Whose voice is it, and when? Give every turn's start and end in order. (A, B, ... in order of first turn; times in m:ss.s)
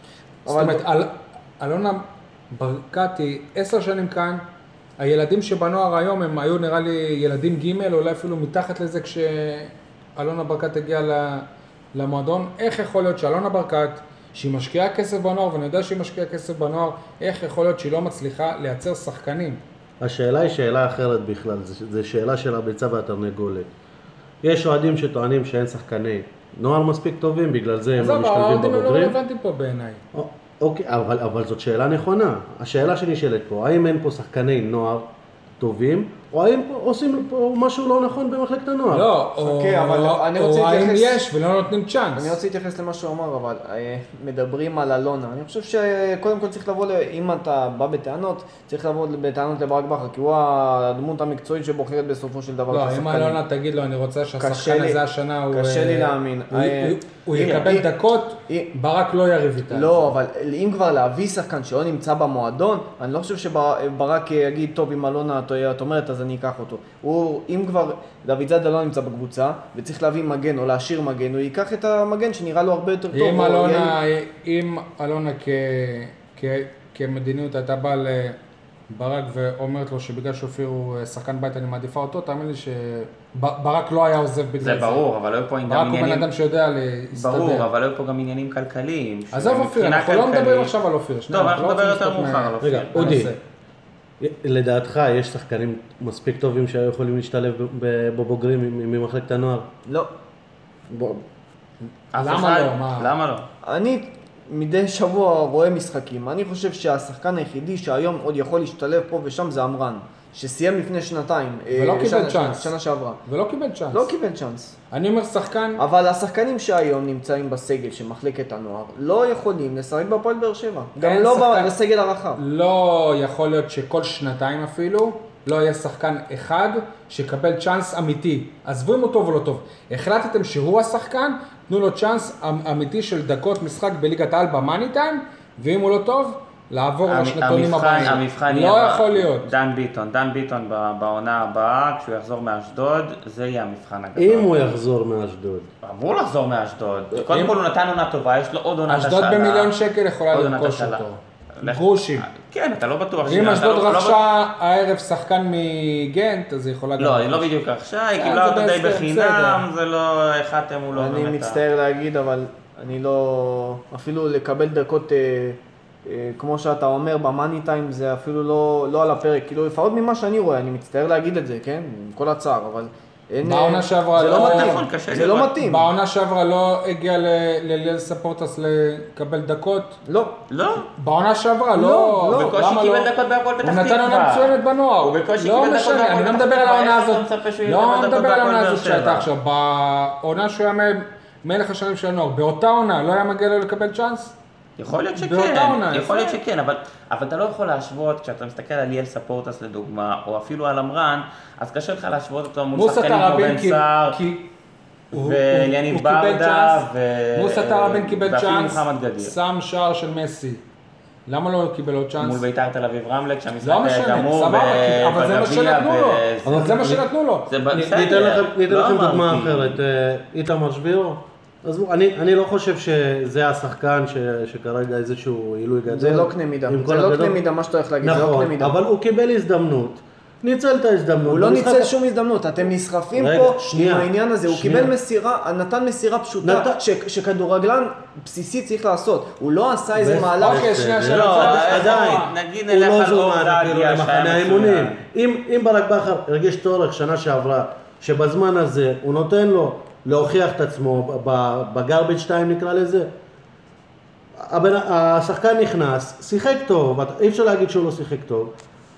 0:00.5-0:00.8 A
0:00.5-0:04.4 B
0:05.0-0:19.6 B
0:20.0-0:23.7 C
0:24.4-0:29.2 C
0:28.0-0:30.0 B
0:30.1-0:35.0 C
0:35.6-0:39.1 C
0:38.9-0:42.4 B
0:39.4-0:41.2 A
0:42.2-0:53.4 A
0:52.7-1:00.2 B
0:54.4-0:57.9 A
0:59.7-1:14.0 A
1:13.1-1:18.4 B
1:18.9-1:25.0 B
1:24.6-1:26.3 D
1:25.7-1:27.7 B
1:27.1-1:30.7 D
1:29.3-1:33.4 B
1:31.3-1:33.3 D
1:32.6-1:33.3 C
1:34.2-1:39.7 C
1:40.9-1:41.2 C
1:42.1-1:43.5 D
1:42.2-1:43.1 B
1:43.6-1:53.2 A
1:51.7-1:52.7 B
1:53.3-1:54.1 B
1:53.9-1:54.8 A
1:54.9-1:55.8 B
1:55.8-2:02.4 A
2:01.0-2:01.7 B
2:02.4-2:19.5 B
2:17.1-2:24.7 D
2:24.2-2:25.7 C
2:25.8-2:29.7 D
2:27.2-2:27.6 B
2:28.9-2:32.3 B
2:30.3-2:31.0 D
2:31.6-2:34.2 D
2:33.2-2:37.5 B
2:37.0-2:41.6 D
2:38.2-2:39.6 B
2:40.9-2:55.9 A
2:53.4-2:54.8 B
2:54.2-2:55.5 D
2:55.6-3:00.0 B
3:00.0-3:00.4 A
3:00.5-3:00.9 D
3:01.0-3:03.1 B
3:01.8-3:02.6 A
3:02.3-3:09.3 D
3:03.6-3:14.4 B
3:14.8-3:24.2 D
3:15.2-3:16.4 B
3:22.8-3:24.5 B
3:25.1-3:26.8 B
3:25.1-3:29.3 D
3:27.4-3:30.6 B
3:31.3-3:32.4 B
3:32.2-3:37.0 D
3:33.6-3:37.5 B
3:36.4-3:37.0 C
3:37.5-3:39.8 D
3:37.7-3:47.4 C
3:45.9-3:48.8 A
3:48.0-3:51.9 C
3:51.3-4:00.8 A
3:53.2-3:54.9 C
3:56.4-3:56.8 C
4:00.0-4:13.1 C
4:00.4-4:02.3 B
4:01.1-4:05.0 D
4:14.4-4:18.5 C